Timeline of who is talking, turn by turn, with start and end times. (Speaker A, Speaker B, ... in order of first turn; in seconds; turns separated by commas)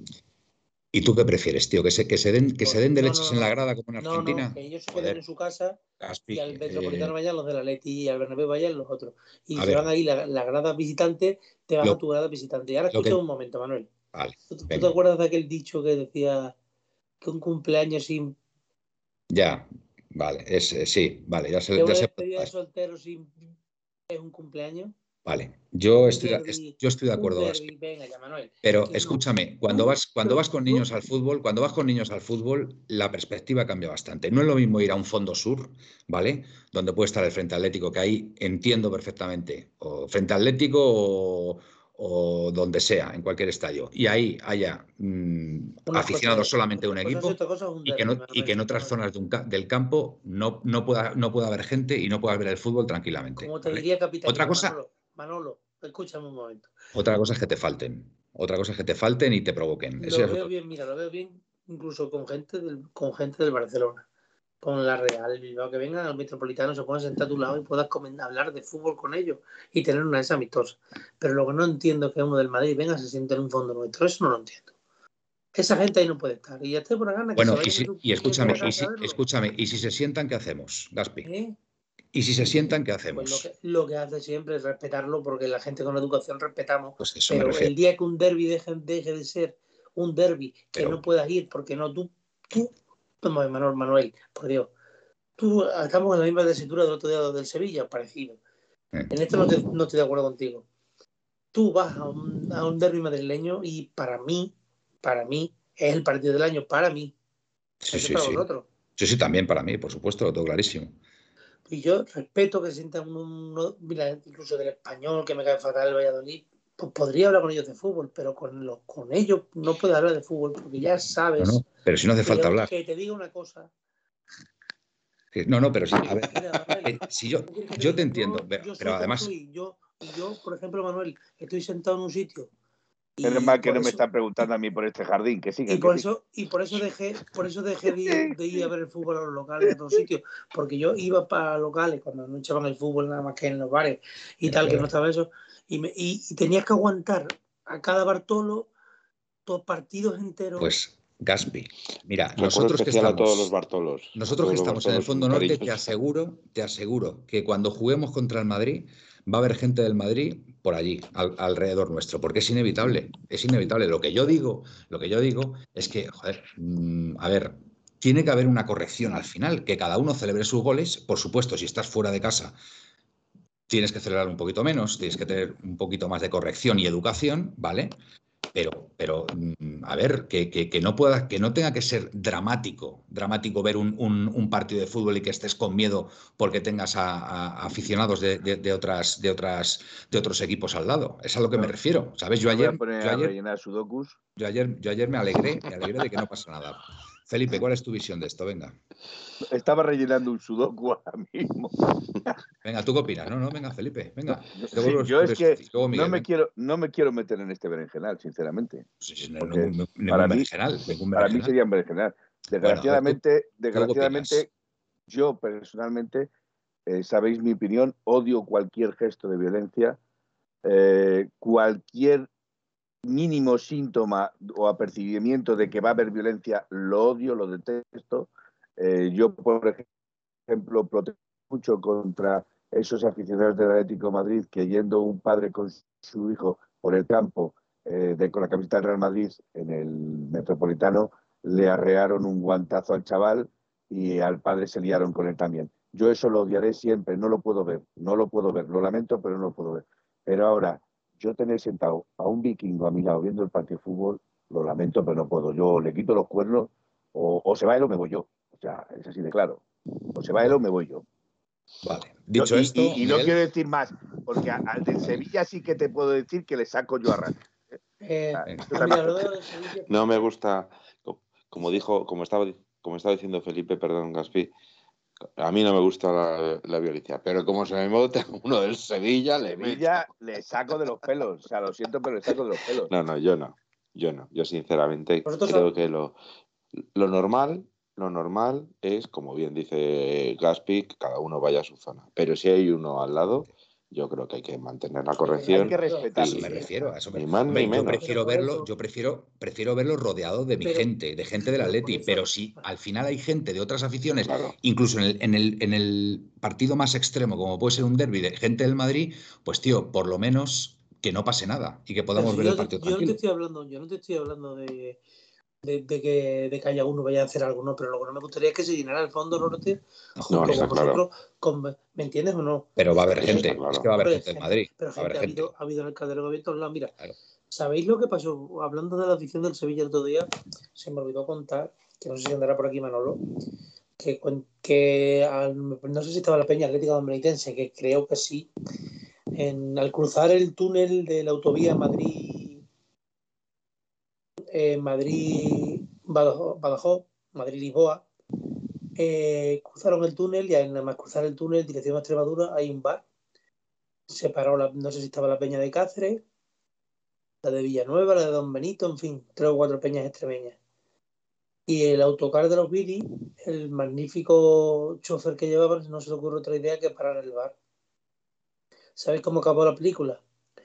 Speaker A: 0.9-5.2, Speaker B: 2.6-5.8, Speaker A: 6.0-7.1, Speaker B: 6.3-13.9, Speaker A: 9.6-9.9, Speaker A: 12.9-13.2, Speaker A: 14.1-14.9, Speaker B: 14.5-16.6, Speaker B: 17.2-18.4, Speaker A: 19.3-22.5, Speaker B: 21.8-23.4, Speaker B: 24.1-24.9, Speaker A: 25.2-27.7, Speaker B: 25.9-30.9, Speaker A: 28.6-54.8, Speaker B: 45.9-49.0, Speaker B: 53.4-56.7, Speaker A: 57.0-60.5, Speaker B: 60.0-64.1, Speaker B: 64.6-74.7, Speaker B: 75.5-79.2, Speaker A: 77.4-81.3, Speaker B: 81.2-81.5, Speaker A: 82.1-83.5, Speaker B: 83.1-94.7, Speaker A: 87.0-87.7, Speaker A: 90.8-91.0, Speaker B: 95.4-98.4, Speaker B: 99.1-100.7, Speaker B: 101.5-107.1, Speaker A: 107.8-108.5, Speaker B: 107.9-108.7, Speaker A: 109.0-111.0, Speaker B: 111.7-121.7, Speaker A: 121.4-122.7, Speaker B: 122.2-123.7, Speaker A: 125.3-129.3, Speaker B: 126.2-132.5, Speaker B: 133.2-134.0, Speaker C: 133.2-136.1, Speaker B: 135.7-148.7, Speaker C: 138.1-138.7, Speaker A: 144.4-144.9, Speaker B: 149.5-150.7, Speaker A: 150.6-153.5, Speaker D: 152.4-155.9, Speaker A: 154.2-172.6, Speaker A: 173.7-177.9, Speaker A: 178.5-193.3, Speaker C: 192.4-194.2, Speaker A: 194.4-198.8, Speaker C: 199.4-202.3, Speaker A: 202.6-206.2, Speaker C: 204.5-208.8, Speaker A: 209.0-211.5, Speaker C: 209.4-210.5, Speaker C: 211.2-214.5, Speaker A: 212.6-213.2, Speaker A: 213.7-214.5, Speaker C: 215.1-216.3, Speaker C: 216.9-220.0, Speaker C: 220.6-222.3, Speaker C: 223.1-229.9, Speaker C: 230.5-259.6, Speaker C: 260.1-261.1, Speaker A: 261.8-263.4, Speaker C: 262.4-267.4, Speaker B: 268.0-270.3, Speaker C: 268.3-269.1, Speaker A: 268.5-268.7, Speaker D: 269.9-274.5, Speaker D: 275.4-280.1, Speaker C: 279.5-282.9, Speaker D: 282.9-286.2, Speaker B: 285.3-285.7, Speaker D: 286.9-298.1, Speaker B: 295.3-296.9, Speaker C: 295.5-296.6, Speaker A: 296.2-313.2, Speaker B: 297.5-298.7, Speaker B: 300.6-302.6, Speaker D: 304.2-304.6, Speaker B: 312.2-315.0, Speaker B: 315.6-319.8, Speaker A: 320.2-320.7, Speaker D: 320.3-321.0, Speaker B: 320.4-323.5, Speaker A: 322.8-325.5, Speaker D: 323.2-323.9, Speaker B: 324.0-326.9, Speaker B: 327.5-333.2, Speaker B: 334.0-338.5, Speaker B: 339.4-342.6, Speaker B: 344.5-348.1, Speaker B: 349.0-353.0, Speaker B: 354.1-356.2, Speaker B: 357.4-360.6, Speaker B: 361.7-367.6, Speaker B: 369.0-370.2